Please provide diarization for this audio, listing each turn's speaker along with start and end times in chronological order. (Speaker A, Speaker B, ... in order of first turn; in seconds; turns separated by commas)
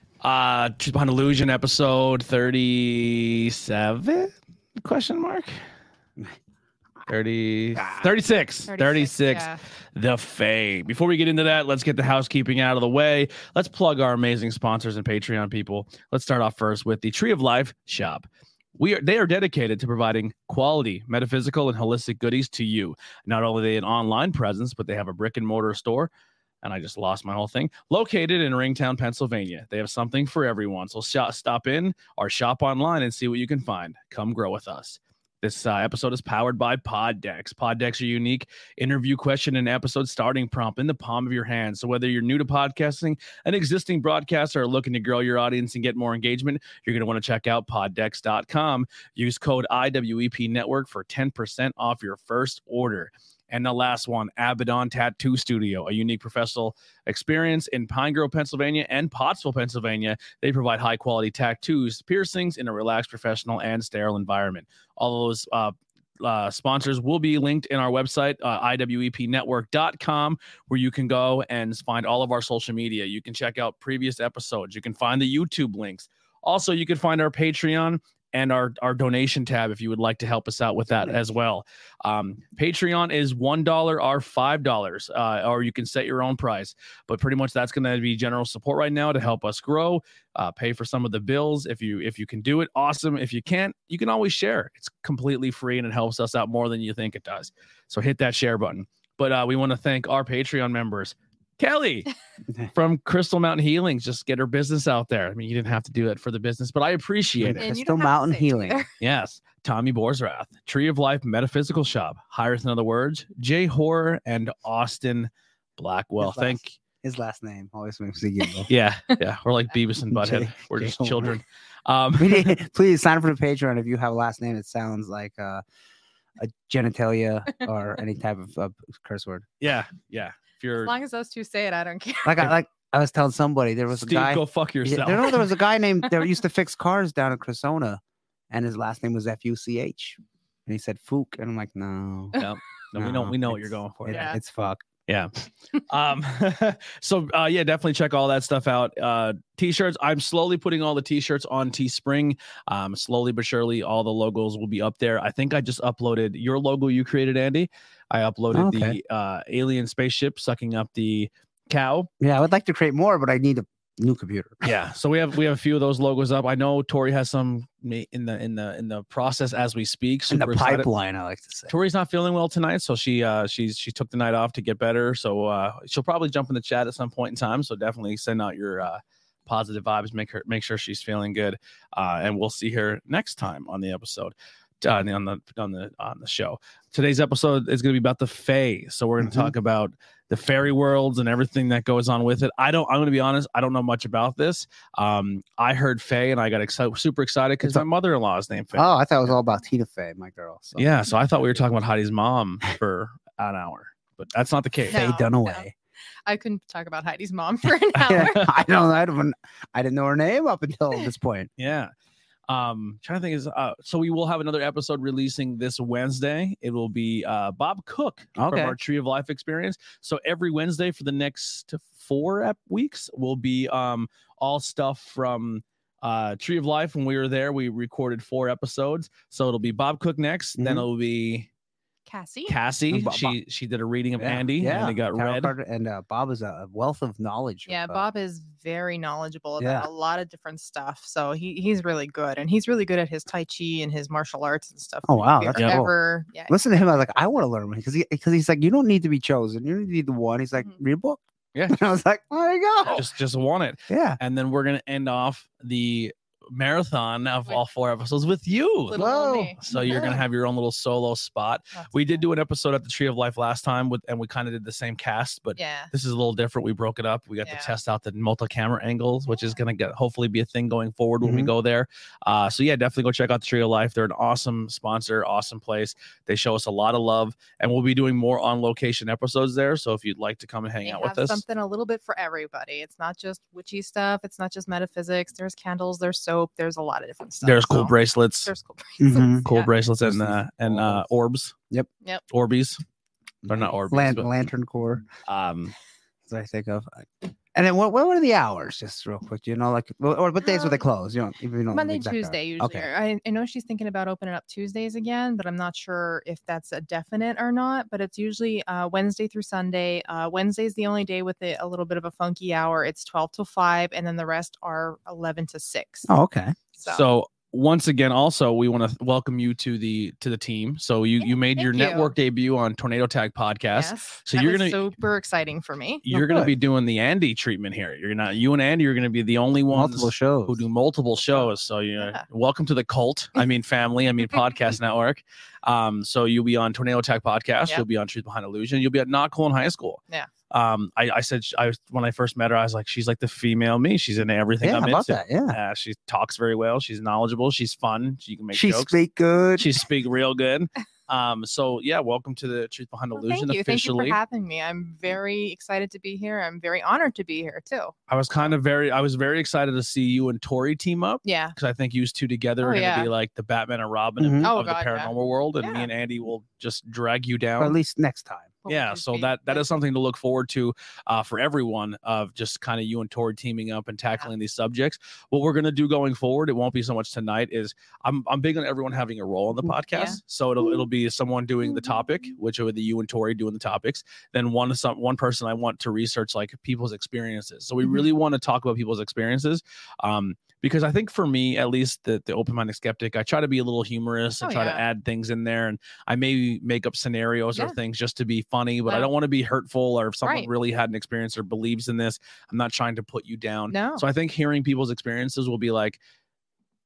Speaker A: 0.2-5.5, Speaker A: 7.1-26.1, Speaker B: 7.8-8.1, Speaker C: 8.7-9.6, Speaker A: 26.6-102.1, Speaker B: 81.0-81.3, Speaker A: 102.7-107.6, Speaker B: 107.4-108.8, Speaker C: 107.6-108.9, Speaker A: 109.0-116.8, Speaker B: 116.2-118.7, Speaker A: 118.7-122.6, Speaker B: 120.1-121.4, Speaker B: 122.2-125.6, Speaker B: 126.4-129.4, Speaker A: 129.6-130.9, Speaker C: 130.8-132.4, Speaker B: 132.2-142.4, Speaker A: 133.9-135.5, Speaker A: 142.3-144.3, Speaker B: 142.9-144.8, Speaker C: 144.1-144.4, Speaker A: 145.1-162.1, Speaker B: 158.5-159.0, Speaker B: 162.2-164.7, Speaker A: 164.6-170.9, Speaker B: 170.3-171.7, Speaker A: 171.7-199.3, Speaker B: 189.2-189.5, Speaker B: 198.7-200.9, Speaker A: 200.8-205.0, Speaker C: 204.9-205.6, Speaker B: 204.9-205.7, Speaker C: 206.3-208.5, Speaker A: 208.0-208.5, Speaker B: 208.1-211.5, Speaker A: 211.6-211.9, Speaker A: 212.5-231.5, Speaker B: 218.4-218.8, Speaker B: 230.6-230.9, Speaker C: 232.1-232.6, Speaker A: 232.5-235.5, Speaker B: 232.9-233.3, Speaker B: 234.2-238.0, Speaker C: 237.7-246.6, Speaker B: 239.6-239.9, Speaker B: 245.1-245.9, Speaker B: 246.5-253.1, Speaker A: 251.5-251.8, Speaker A: 252.9-259.0, Speaker B: 253.9-254.2, Speaker C: 258.9-259.6, Speaker B: 258.9-260.2, Speaker A: 259.6-281.4, Speaker C: 261.7-262.2, Speaker C: 265.6-265.9, Speaker C: 267.4-267.7, Speaker B: 271.2-271.5, Speaker C: 280.8-287.9, Speaker A: 287.4-288.5, Speaker C: 288.4-289.7, Speaker B: 289.0-289.5, Speaker A: 289.4-291.5, Speaker B: 290.0-291.0, Speaker A: 292.3-292.8, Speaker B: 293.4-295.1, Speaker A: 293.4-294.3, Speaker A: 295.2-295.7, Speaker B: 296.3-302.9, Speaker C: 300.4-300.8, Speaker C: 301.7-316.1, Speaker B: 316.1-316.6, Speaker C: 316.8-317.1, Speaker A: 316.9-324.8, Speaker C: 321.2-322.1, Speaker C: 323.7-326.0, Speaker A: 326.1-348.9, Speaker B: 326.1-326.5, Speaker B: 329.7-330.6, Speaker C: 331.2-331.5, Speaker B: 344.6-345.6, Speaker B: 348.5-349.8, Speaker A: 349.6-354.2, Speaker C: 353.1-358.5, Speaker A: 358.1-367.8, Speaker C: 361.2-361.5, Speaker C: 362.6-363.1, Speaker B: 364.2-364.5, Speaker C: 364.4-365.9, Speaker B: 367.6-368.5, Speaker C: 368.6-369.7, Speaker A: 368.7-406.0, Speaker C: 379.9-380.2, Speaker C: 394.4-394.8, Speaker C: 400.2-400.5, Speaker C: 403.7-404.0